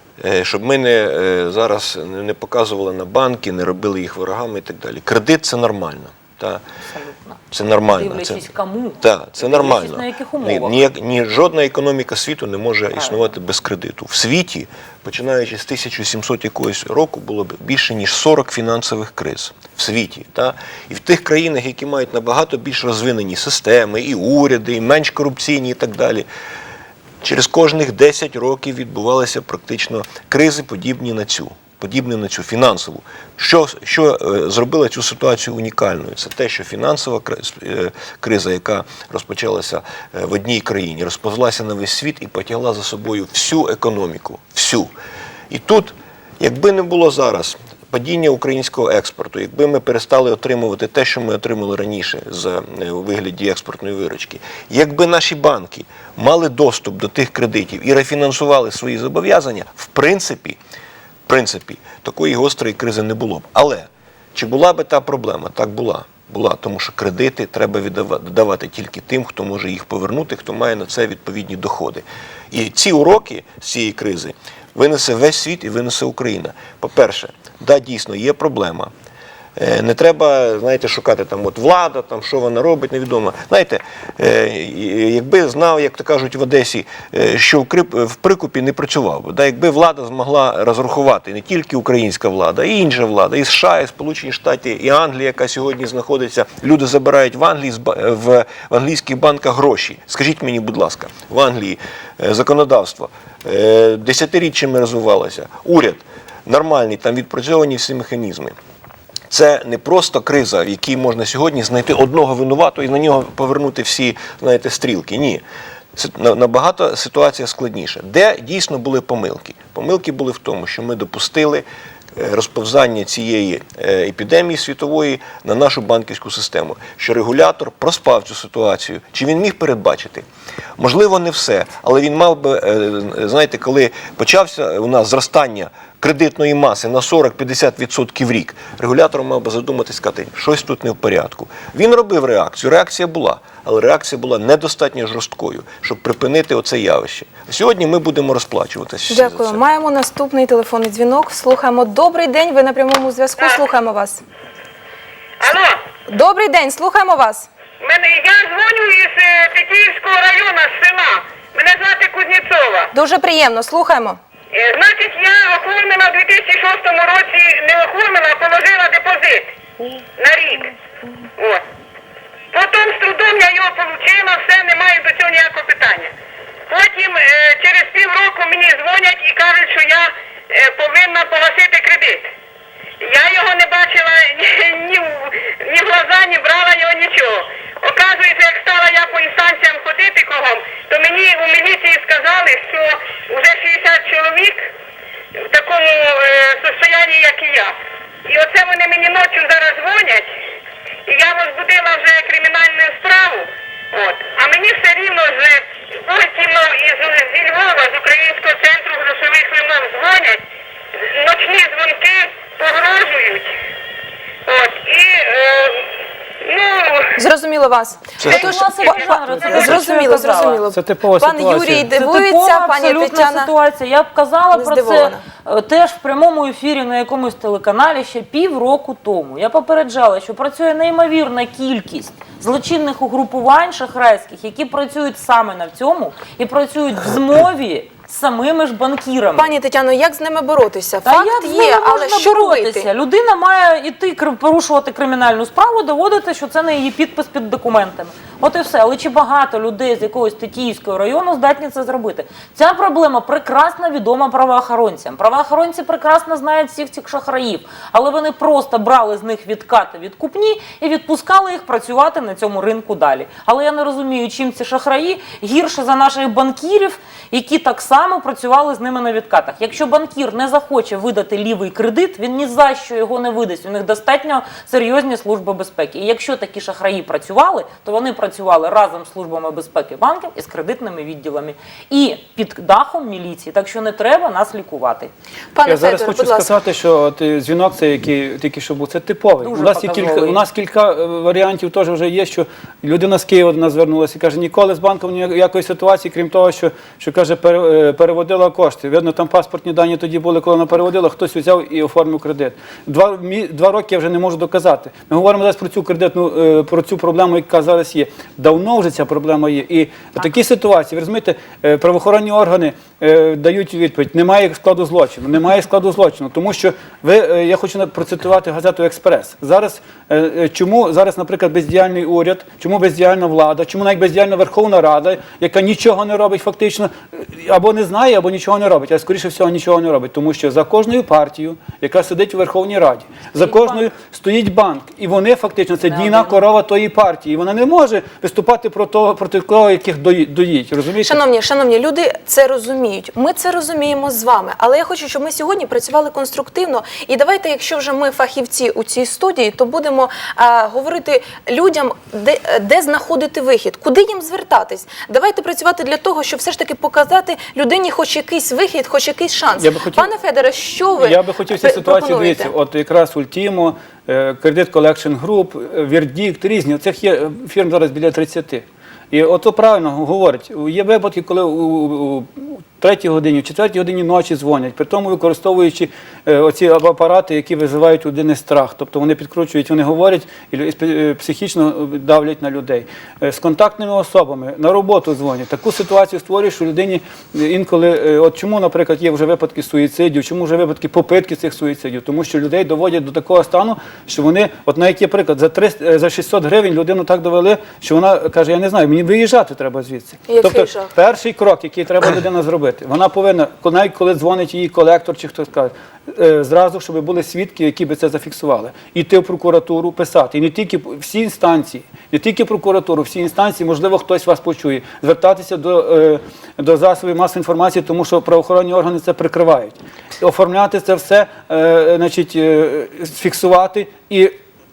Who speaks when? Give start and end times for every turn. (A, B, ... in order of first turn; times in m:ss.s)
0:00.2-0:06.6 A
0:06.8-0:10.8 B
0:07.5-0:08.5 A
0:09.0-0:26.3 A
0:13.0-0:13.3 B
0:27.2-0:44.9 A
0:45.5-1:00.6 A
1:01.3-1:18.9 A
1:19.6-1:48.6 A
1:49.3-1:55.4 A
1:56.0-2:10.2 A
2:10.8-2:29.6 A
2:29.1-2:34.2 C
2:33.4-2:33.6 D
2:35.4-2:35.8 D
2:36.1-2:37.5 C
2:37.8-2:42.9 D
2:42.9-2:44.2 C
2:44.5-2:49.5 D
2:50.2-2:50.8 D
2:51.4-2:51.6 D
2:52.5-2:56.1 D
2:56.7-3:02.3 D
3:03.0-3:14.7 D
3:15.4-3:17.7 D
3:18.3-3:20.3 D
3:21.1-3:30.4 D
3:31.1-3:33.5 D
3:34.5-3:37.2 D
3:37.2-3:43.5 C
3:38.2-3:38.5 A
3:38.3-3:40.6 B
3:38.3-3:39.7 D
3:39.3-3:39.8 E
3:40.7-3:41.9 E
3:41.9-3:59.5 B
3:44.5-3:45.2 C
3:59.4-4:02.9 C
4:01.0-4:45.1 B
4:45.5-4:46.5 C
4:45.7-5:41.2 E
4:49.4-4:50.4 B
5:33.4-5:33.8 B
5:35.9-5:36.4 B
5:41.0-6:02.5 C
5:59.6-6:00.1 E
6:01.0-7:04.4 E
6:40.3-6:40.9 C